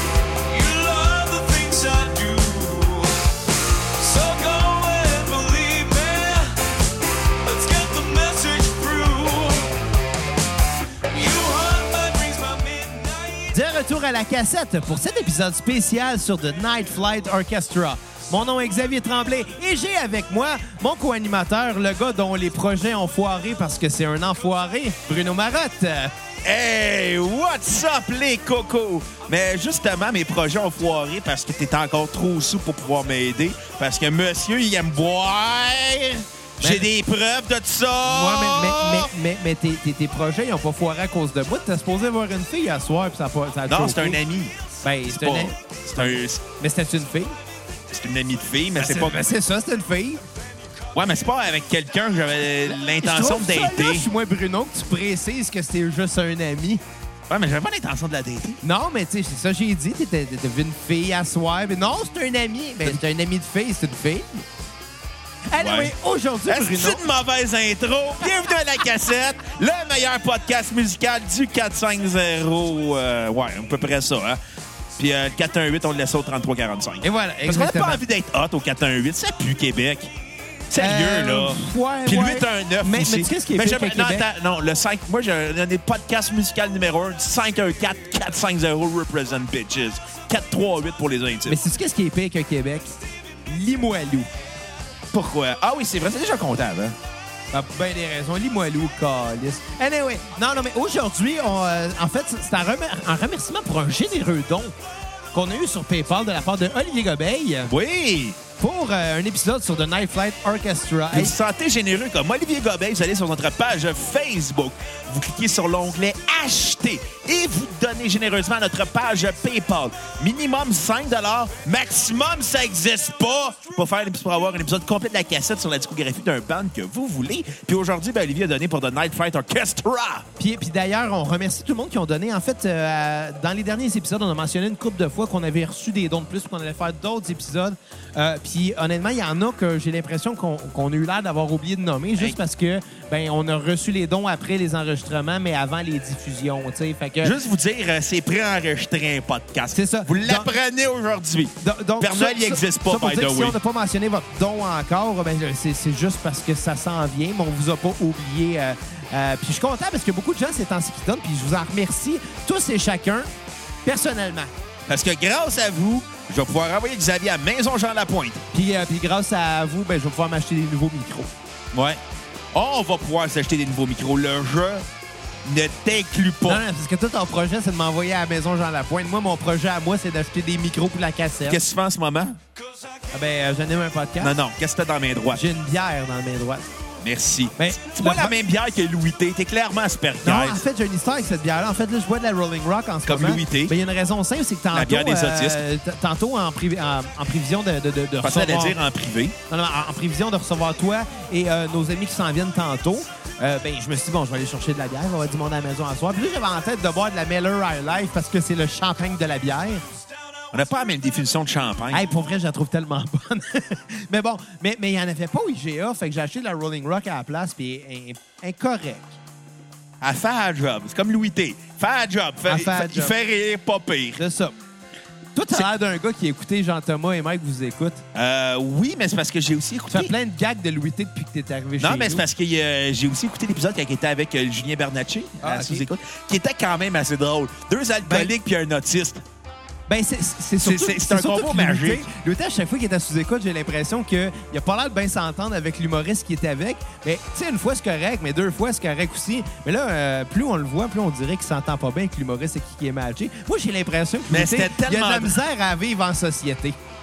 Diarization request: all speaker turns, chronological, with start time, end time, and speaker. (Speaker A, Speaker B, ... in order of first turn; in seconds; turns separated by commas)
Speaker A: 0.5-3.1, Speaker A: 4.0-6.6, Speaker A: 7.4-9.7, Speaker A: 11.1-13.5, Speaker B: 13.5-26.1, Speaker C: 26.4-39.1, Speaker B: 36.6-36.9, Speaker B: 38.0-44.2, Speaker C: 43.7-44.6, Speaker B: 44.8-47.4, Speaker C: 45.1-46.4, Speaker C: 47.9-49.2, Speaker B: 48.8-50.2, Speaker C: 51.0-54.1, Speaker B: 52.7-56.8, Speaker C: 57.3-58.6, Speaker B: 58.6-64.5, Speaker B: 65.5-67.0, Speaker C: 65.6-66.0, Speaker C: 66.5-74.4, Speaker C: 75.0-80.1, Speaker B: 77.0-78.0, Speaker C: 80.7-91.6, Speaker B: 80.8-84.3, Speaker B: 91.5-93.0, Speaker B: 93.5-94.3, Speaker C: 95.1-97.0, Speaker B: 97.5-104.8, Speaker B: 105.3-107.7, Speaker C: 107.7-108.4, Speaker B: 108.6-111.3, Speaker C: 111.1-130.3, Speaker B: 130.4-147.3, Speaker C: 147.2-153.6, Speaker B: 149.7-150.5, Speaker B: 151.6-163.3, Speaker B: 163.8-164.5, Speaker C: 164.9-168.4, Speaker B: 168.5-171.3, Speaker C: 171.7-172.0, Speaker C: 172.5-174.8, Speaker C: 175.4-176.6, Speaker B: 176.5-181.6, Speaker C: 181.5-182.4, Speaker B: 183.1-184.3, Speaker C: 184.2-185.4, Speaker B: 185.3-186.7, Speaker C: 187.0-190.6, Speaker B: 187.6-188.3, Speaker B: 190.2-198.8, Speaker C: 193.1-193.7, Speaker C: 194.7-195.6, Speaker C: 198.2-199.3, Speaker B: 199.5-209.8, Speaker C: 210.5-212.1, Speaker B: 211.9-219.2, Speaker C: 220.0-224.2, Speaker B: 222.5-223.1, Speaker B: 224.2-224.6, Speaker B: 225.3-228.0, Speaker C: 228.1-230.1, Speaker B: 229.9-232.2, Speaker C: 231.8-239.2, Speaker B: 235.4-235.9, Speaker B: 238.1-238.3, Speaker B: 239.9-256.8, Speaker C: 240.6-242.1, Speaker C: 254.3-255.4